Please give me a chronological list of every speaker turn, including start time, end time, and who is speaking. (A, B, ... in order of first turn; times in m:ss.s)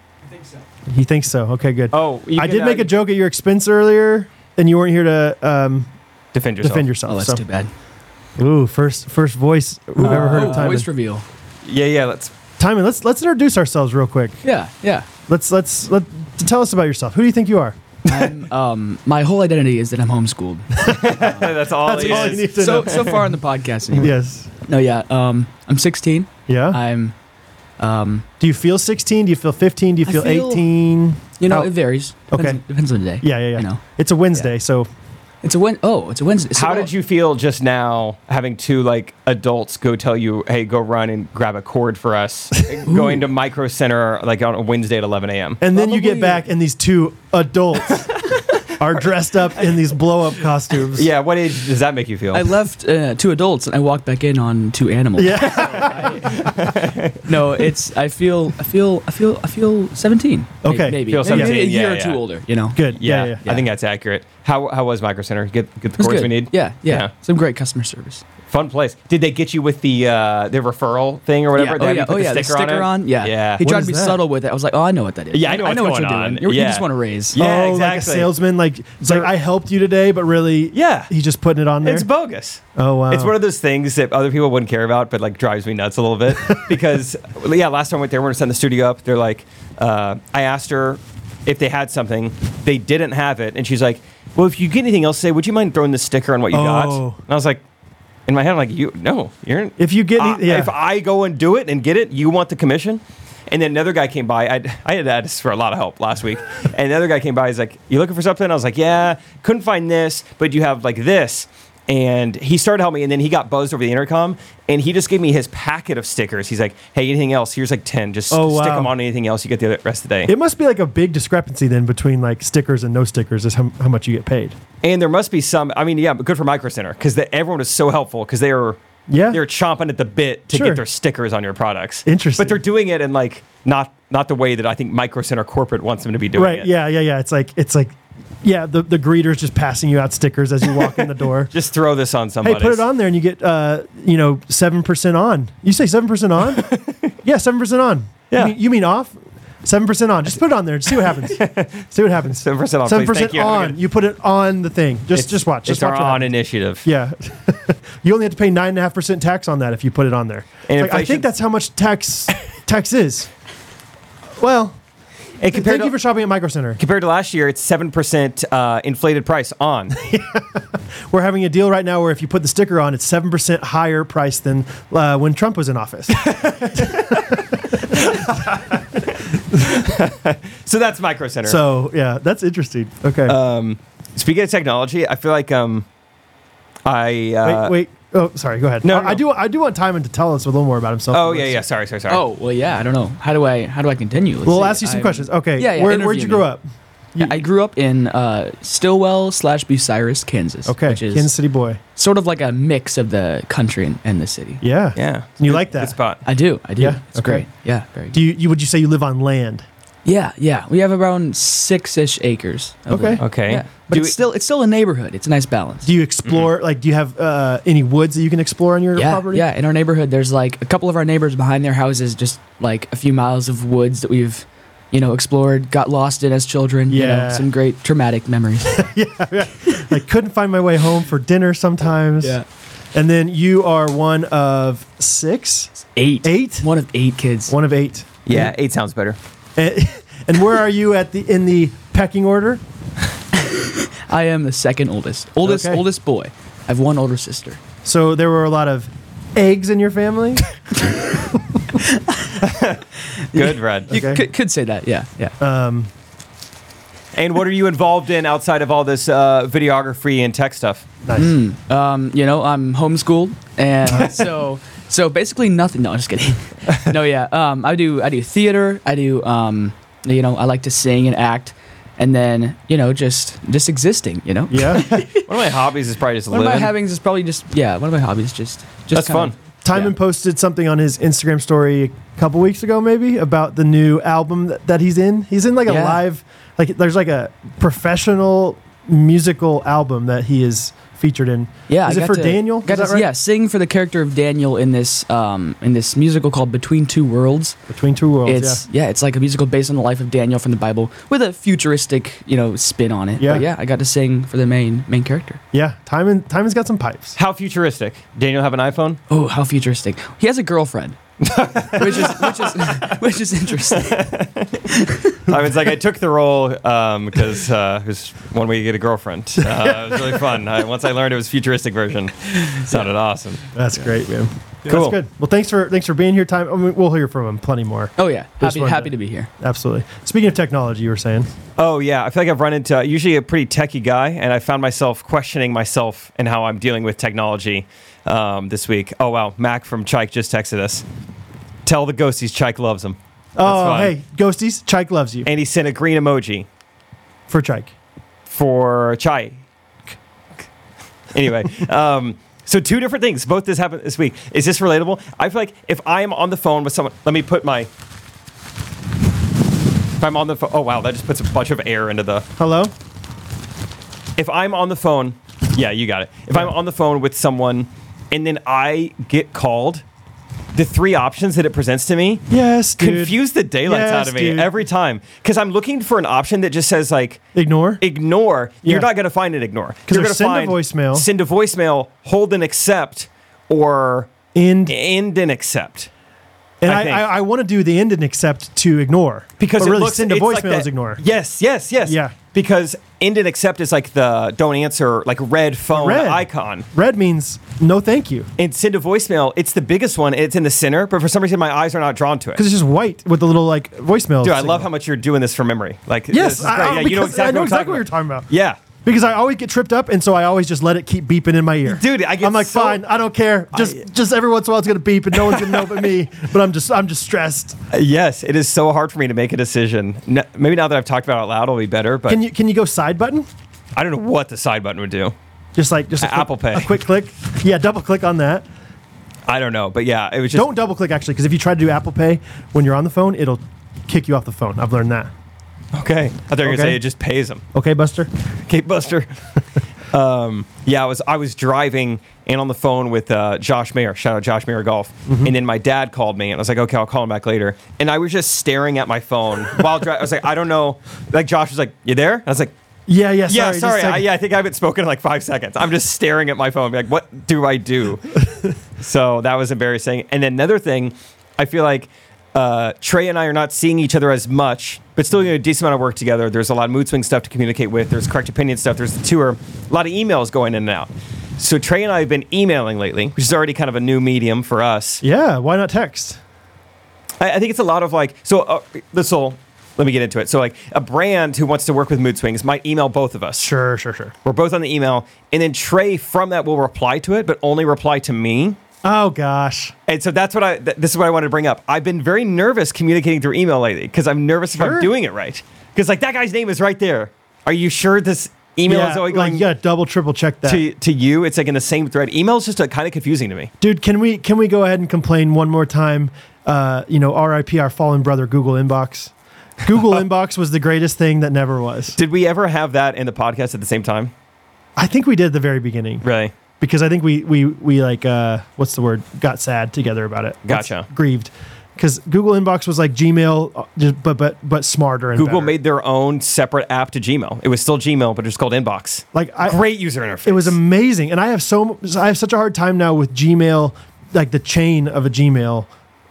0:00.9-0:05.9 A
0:01.9-0:02.9 B
0:06.3-0:06.9 B
0:06.6-0:07.4 A
0:07.1-0:07.7 C
0:08.4-0:10.9 A
0:10.0-0:11.2 C
0:11.6-0:12.3 B
0:12.6-0:14.4 A
0:14.4-0:15.1 C
0:15.3-0:17.8 A
0:18.1-0:24.1 C
0:20.8-0:21.2 A
0:20.8-0:23.2 B
0:21.8-0:23.4 A
0:23.9-0:24.5 A
0:24.6-0:27.1 C
0:26.5-0:26.8 A
0:27.8-0:28.2 C
0:28.4-0:31.7 A
0:30.0-0:30.6 C
0:31.4-0:33.8 C
0:32.3-0:32.6 A
0:33.2-0:34.9 A
0:35.4-0:36.9 C
0:36.5-0:45.6 B
0:42.9-0:43.3 C
0:45.6-0:51.1 A
0:45.7-0:46.4 C
0:48.2-0:48.5 B
0:50.9-0:52.5 B
0:52.3-0:56.6 C
0:55.2-0:56.3 A
0:55.7-0:57.3 B
0:57.2-1:03.6 C
1:00.6-1:01.7 A
1:01.1-1:02.2 B
1:02.7-1:03.4 A
1:02.9-1:07.1 B
1:06.0-1:08.2 C
1:08.5-1:13.6 B
1:11.6-1:17.4 C
1:13.6-1:14.2 A
1:15.3-1:18.3 B
1:17.4-1:22.1 A
1:19.0-1:19.3 B
1:20.7-1:21.1 B
1:21.8-1:37.6 B
1:22.8-1:23.4 A
1:26.5-1:26.7 A
1:36.5-1:37.2 A
1:38.3-2:00.3 B
1:39.8-1:40.7 A
1:58.3-1:58.9 A
2:00.3-2:04.6 A
2:04.8-2:08.8 B
2:09.1-2:09.4 A
2:09.3-2:16.7 B
2:10.5-2:10.8 A
2:12.0-2:12.6 A
2:16.4-2:21.5 A
2:21.5-2:22.8 B
2:22.4-2:26.7 A
2:26.6-2:27.1 B
2:27.2-2:36.3 A
2:28.3-2:28.5 B
2:31.3-2:33.8 B
2:35.1-2:36.8 B
2:36.8-2:43.3 A
2:40.7-2:41.3 B
2:44.4-2:44.8 A
2:45.4-2:45.9 B
2:45.5-2:46.8 A
2:46.8-2:50.0 B
2:49.9-2:59.0 A
2:56.1-2:58.4 B
2:59.1-3:01.6 B
2:59.5-2:59.8 A
3:01.4-3:03.4 A
3:03.2-3:05.9 B
3:06.8-3:07.8 B
3:07.4-3:11.6 A
3:08.8-3:09.2 B
3:11.1-3:12.2 B
3:12.1-3:16.5 C
3:14.4-3:16.6 A
3:17.1-3:17.4 A
3:17.2-3:21.3 C
3:20.7-3:21.8 A
3:22.0-3:24.6 C
3:24.6-3:26.0 A
3:25.0-3:26.2 B
3:26.2-3:28.2 C
3:26.8-3:27.4 A
3:28.1-3:29.6 A
3:30.0-3:35.9 C
3:32.9-3:33.2 A
3:33.2-3:34.2 B
3:35.8-3:39.4 A
3:39.0-3:48.9 C
3:46.9-3:47.5 A
3:48.7-3:52.4 A
3:52.9-3:55.7 A
3:55.9-3:57.5 C
3:56.2-3:56.7 A
3:57.5-3:58.5 A
3:58.2-3:59.2 B
3:59.6-4:02.6 A
4:03.3-4:07.6 C
4:05.4-4:05.8 A
4:07.8-4:10.4 A
4:11.7-4:12.4 C
4:12.4-4:13.9 B
4:13.3-4:15.4 C
4:13.9-4:14.2 A
4:15.4-4:15.9 A
4:17.1-4:20.9 B
4:21.0-4:21.3 A
4:21.1-4:35.3 C
4:34.5-4:34.9 A
4:34.8-4:36.7 B
4:36.3-4:39.9 C
4:38.9-4:39.3 B
4:39.6-4:53.1 A
4:45.7-4:46.0 C
4:51.7-4:57.6 C
4:57.7-4:58.6 A
4:58.2-5:05.4 C
5:03.2-5:03.4 A
5:05.5-5:07.2 A
5:07.2-5:09.0 B
5:09.1-5:11.0 C
5:11.2-5:13.0 B
5:11.7-5:15.2 C
5:13.7-5:14.6 B
5:15.2-5:23.4 B
5:19.4-5:20.2 A
5:23.5-5:31.3 A
5:24.6-5:25.0 B
5:28.0-5:29.3 C
5:31.6-5:40.8 B
5:41.6-5:43.9 B
5:43.4-5:45.3 A
5:45.2-5:46.5 B
5:47.3-5:47.7 A
5:48.3-5:49.4 B
5:51.1-5:57.7 B
6:00.0-6:02.3 B
6:02.4-6:02.7 A
6:04.2-6:09.8 B
6:10.5-6:12.2 B
6:12.3-6:14.5 A
6:12.8-6:17.2 B
6:17.3-6:17.8 A
6:17.8-6:24.1 B
6:19.9-6:21.1 A
6:24.3-6:24.7 A
6:24.7-6:25.9 B
6:26.6-6:31.0 A
6:26.6-6:27.1 B
6:29.4-6:36.6 B
6:31.8-6:32.1 A
6:35.7-6:38.3 A
6:38.4-6:42.4 B
6:42.4-6:44.7 A
6:44.2-6:48.6 B
6:46.1-6:48.3 A
6:48.8-6:57.6 A
6:51.6-6:52.8 B
6:55.2-6:55.7 B
6:57.7-7:02.2 B
7:02.1-7:03.3 A
7:03.8-7:05.1 B
7:05.5-7:08.4 A
7:06.0-7:06.8 B
7:09.3-7:10.5 B
7:10.3-7:15.1 A
7:15.7-7:17.4 B
7:16.4-7:16.8 A
7:17.5-7:18.1 A
7:18.5-7:19.1 B
7:19.9-7:32.5 B
7:25.1-7:25.3 A
7:32.9-7:34.1 A
7:33.3-7:38.1 B
7:38.8-7:55.0 B
7:55.0-7:56.2 A
7:57.2-8:03.5 B
8:03.4-8:04.1 A
8:04.2-8:08.6 B
8:08.8-8:09.7 A
8:09.9-8:19.4 B
8:14.5-8:14.9 A
8:18.7-8:20.6 A
8:20.4-8:23.5 B
8:23.6-8:32.0 A
8:31.9-8:34.1 B
8:34.8-8:36.0 A
8:36.0-8:36.3 B
8:36.6-8:45.5 A
8:40.5-8:40.9 B
8:45.2-8:50.6 B
8:49.1-8:49.6 A
8:50.2-8:55.7 A